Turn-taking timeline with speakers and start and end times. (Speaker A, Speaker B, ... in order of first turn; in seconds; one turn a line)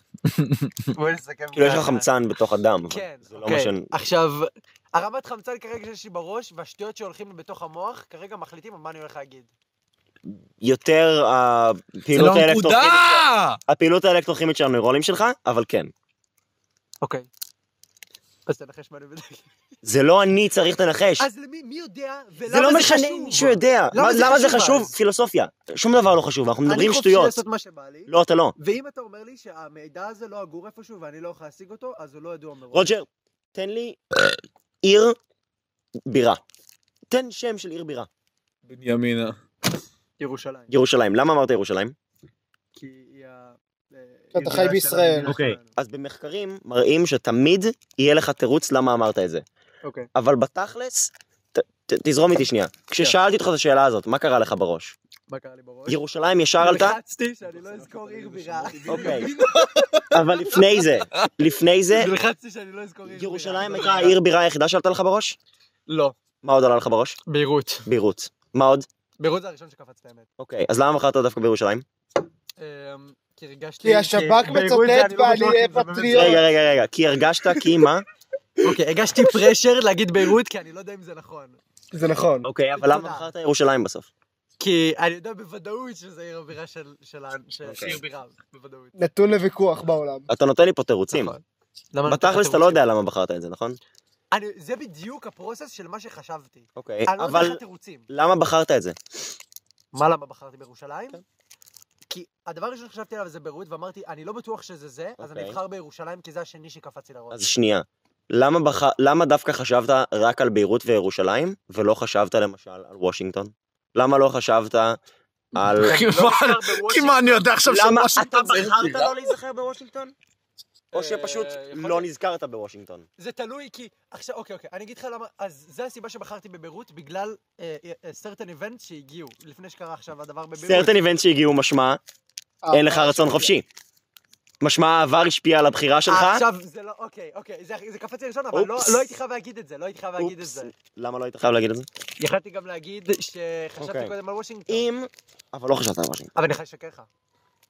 Speaker A: 0.3-0.9
Speaker B: 0.9-2.1
Speaker C: 1.5-3.9
Speaker B: 2.9-9.5
Speaker C: 10.2-15.9
Speaker A: 12.1-13.6
Speaker B: 17.0-17.3
Speaker B: 18.4-19.5
Speaker C: 19.8-21.2
Speaker B: 21.2-24.9
Speaker C: 22.5-27.4
Speaker B: 26.6-32.9
Speaker C: 28.1-28.5
Speaker C: 32.7-35.2
Speaker C: 36.0-36.4
Speaker C: 37.1-38.1
Speaker A: 38.7-39.3
Speaker B: 40.2-40.7
Speaker C: 40.7-41.9
Speaker B: 42.7-45.7
Speaker D: 44.3-45.4
Speaker C: 45.2-49.4
Speaker C: 50.1-55.0
Speaker B: 55.3-56.0
Speaker C: 55.9-57.0
Speaker B: 56.6-60.8
Speaker A: 58.7-59.3
Speaker C: 58.9-59.3
Speaker C: 60.1-62.1
Speaker B: 61.9-64.2
Speaker C: 63.1-65.4
Speaker B: 65.9-66.1
Speaker C: 66.4-67.2
Speaker B: 67.3-67.9
Speaker C: 67.8-68.9
Speaker B: 69.2-70.3
Speaker C: 70.4-71.8
Speaker B: 72.6-76.4
Speaker D: 73.8-76.4
Speaker C: 76.1-78.0
Speaker B: 78.6-81.6
Speaker D: 81.9-82.5
Speaker C: 82.4-84.1
Speaker B: 82.7-83.3
Speaker B: 84.6-88.9
Speaker C: 87.7-88.0
Speaker D: 89.0-90.3
Speaker C: 90.3-91.4
Speaker B: 91.1-91.4
Speaker B: 91.9-92.8
Speaker C: 92.0-93.8
Speaker B: 94.3-98.1
Speaker C: 96.8-99.0
Speaker B: 99.9-101.2
Speaker B: 102.1-107.4
Speaker C: 105.2-105.6
Speaker C: 107.3-115.0
Speaker C: 115.5-116.0
Speaker A: 115.5-119.0
Speaker B: 115.8-117.4
Speaker C: 117.7-120.1
Speaker B: 120.9-122.1
Speaker C: 120.9-123.0
Speaker B: 123.2-130.9
Speaker C: 130.6-132.0
Speaker D: 132.6-133.2
Speaker C: 132.7-133.7
Speaker B: 133.1-133.5
Speaker C: 134.6-136.4
Speaker B: 136.1-140.7
Speaker C: 138.5-139.1
Speaker C: 140.2-141.9
Speaker B: 142.2-144.8
Speaker C: 143.8-144.1
Speaker C: 144.7-146.3
Speaker B: 146.3-147.1